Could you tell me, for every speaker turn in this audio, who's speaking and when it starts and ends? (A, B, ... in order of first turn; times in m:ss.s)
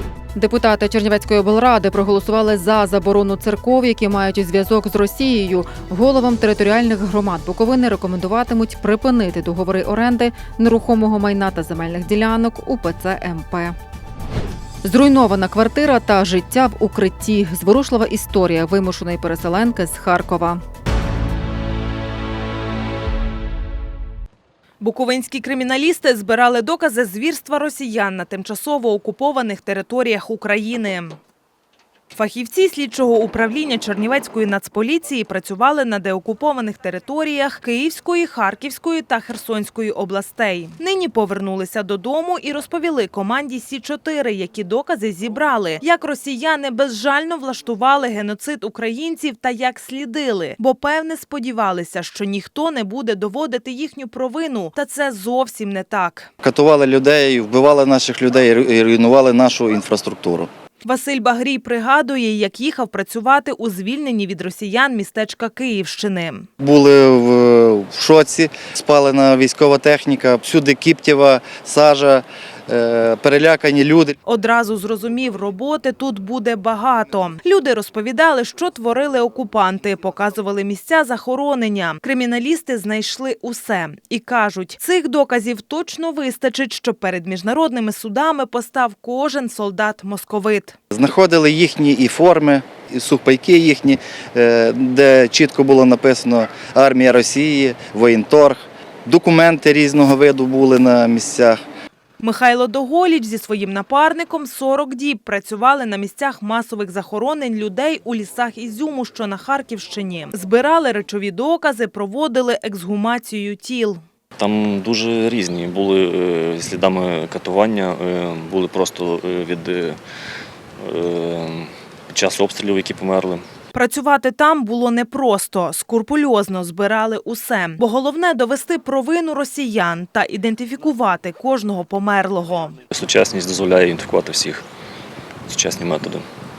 0:00.3-0:13.8 A
0:14.8-0:20.6 A
0:24.8-0:31.2 B
0:32.1-0:56.3 B
0:56.4-1:00.5 C
1:00.8-1:06.5 B
1:06.6-1:14.2 C
1:14.2-1:30.8 B
1:30.9-1:41.6 C
1:42.2-1:54.0 B
1:54.4-2:00.0 D
2:00.8-2:03.4 D
2:03.7-2:12.8 B
2:12.9-2:14.6 D
2:15.5-2:16.3 D